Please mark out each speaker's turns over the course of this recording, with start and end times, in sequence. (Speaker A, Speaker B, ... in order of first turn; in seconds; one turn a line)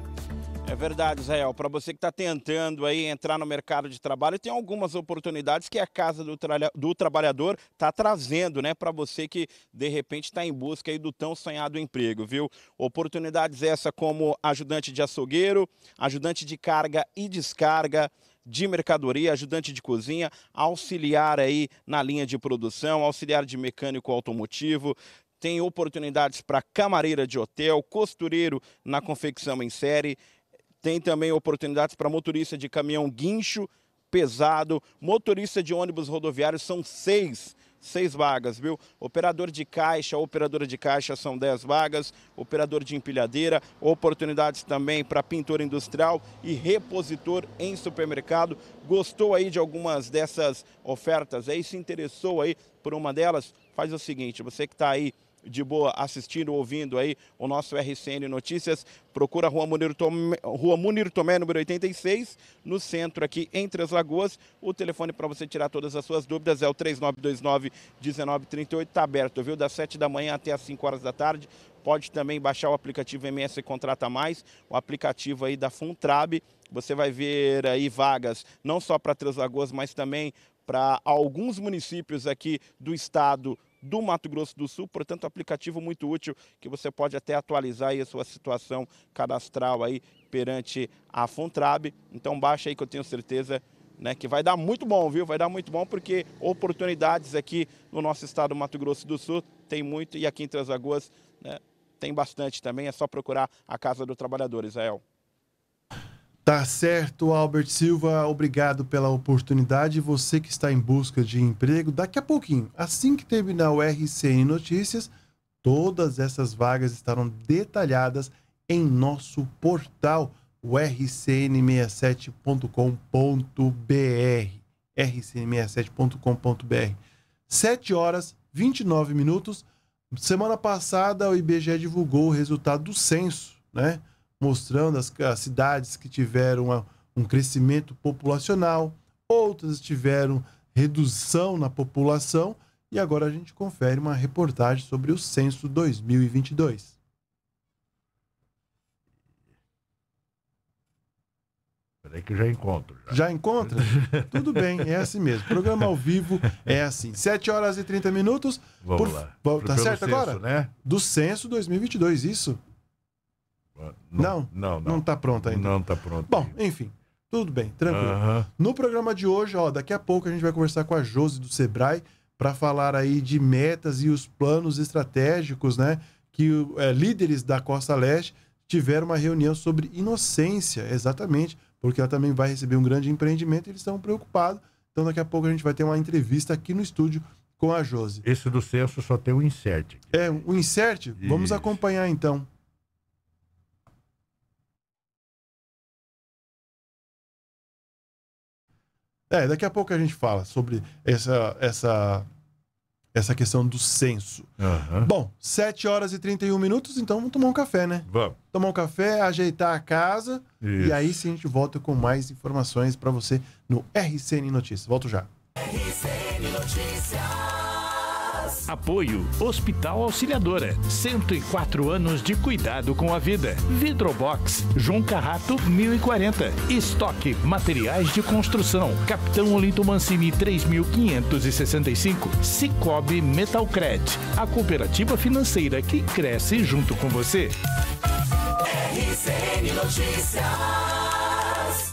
Speaker A: 0.7-30.2
Speaker A: 30.8-105.0
Speaker B: 106.4-115.1
Speaker B: 115.6-146.9
Speaker C: 152.0-153.2
Speaker B: 153.1-162.6
Speaker C: 153.7-154.8
Speaker C: 158.8-160.7
Speaker C: 163.8-166.5
Speaker B: 164.2-165.8
Speaker B: 166.3-188.2
Speaker C: 167.8-168.5
Speaker C: 188.2-190.1
Speaker B: 190.1-192.5
Speaker C: 191.2-191.8
Speaker B: 199.3-202.3
Speaker B: 203.1-215.3
Speaker C: 204.6-205.1
Speaker C: 208.1-208.4
Speaker C: 210.6-211.2
Speaker D: 215.6-218.6
Speaker E: 218.7-237.6
Speaker D: 238.7-241.8